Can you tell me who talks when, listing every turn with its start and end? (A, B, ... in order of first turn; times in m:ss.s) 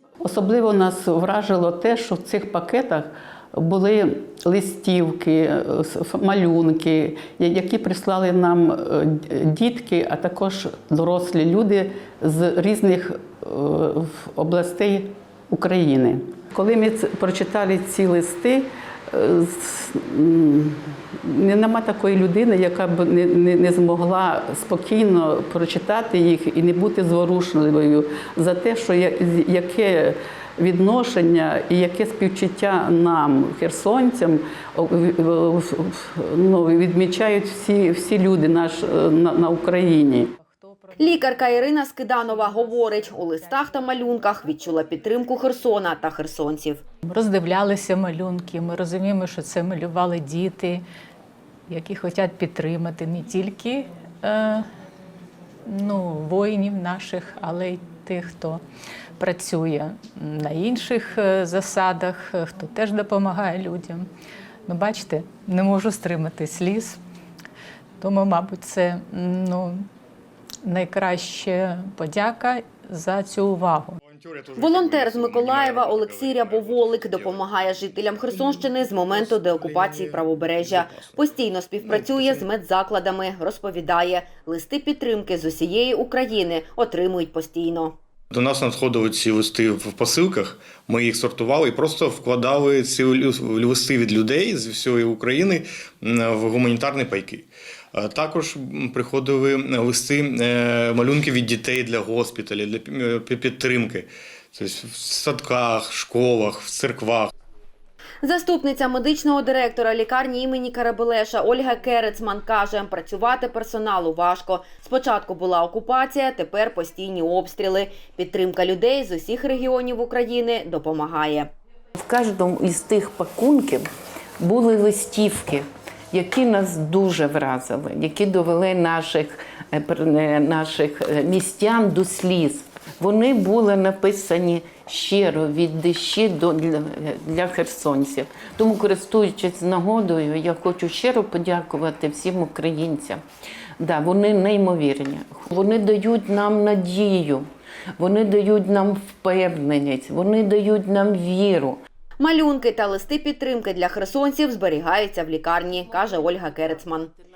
0:00.2-0:40.3 A
0:40.4-0:44.3 B
0:41.0-0:46.8 C
0:47.1-0:50.8 B
0:51.7-0:54.6 B
0:55.7-0:58.6 B
0:59.2-1:04.1 B
1:04.7-1:07.0 B
1:08.0-1:09.8 B
1:10.6-1:14.0 B
1:14.3-1:17.9 D
1:14.5-1:27.9 C
1:19.4-1:19.9 D
1:28.3-1:37.4 D
1:38.0-1:47.3 D
1:48.2-2:01.5 C
2:02.0-2:03.9 E
2:04.4-2:23.2 E
2:23.8-2:31.8 E
2:32.2-2:37.1 C